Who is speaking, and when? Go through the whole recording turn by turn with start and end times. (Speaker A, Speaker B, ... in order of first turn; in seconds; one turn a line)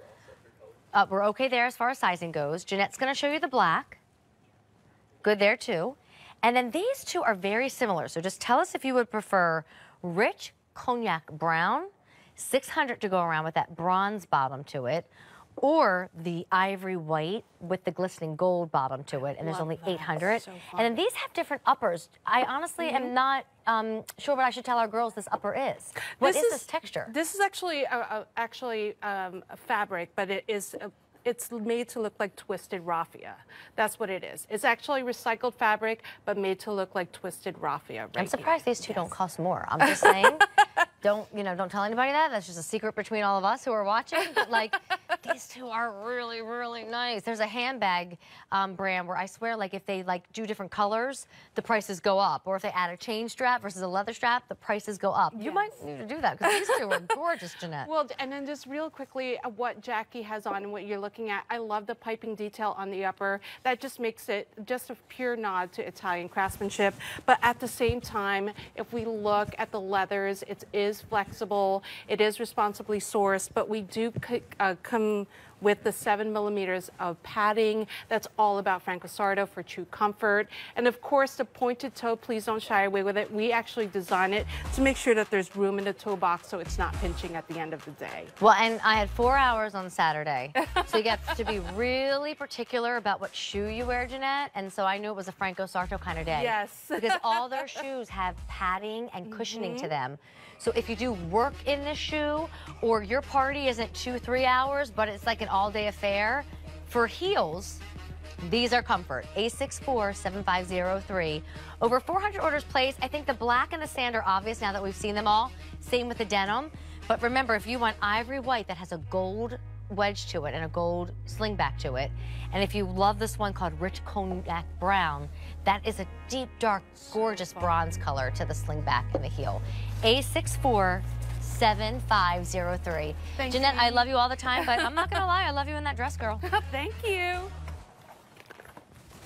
Speaker A: 0.9-4.0
Speaker A: 5.2-15.1
Speaker A: 15.6-27.1
Speaker B: 19.4-20.9
Speaker B: 22.8-23.1
Speaker B: 26.2-39.1
Speaker A: 38.2-40.5
Speaker B: 39.8-40.3
Speaker A: 41.0-57.9
Speaker B: 55.3-55.8
Speaker B: 56.4-57.2
Speaker B: 57.8-88.3
Speaker A: 88.4-107.8
Speaker B: 90.6-91.6
Speaker B: 96.3-97.9
Speaker B: 99.2-99.9
Speaker A: 108.4-136.5
Speaker B: 127.3-127.8
Speaker B: 133.4-135.2
Speaker B: 136.4-137.5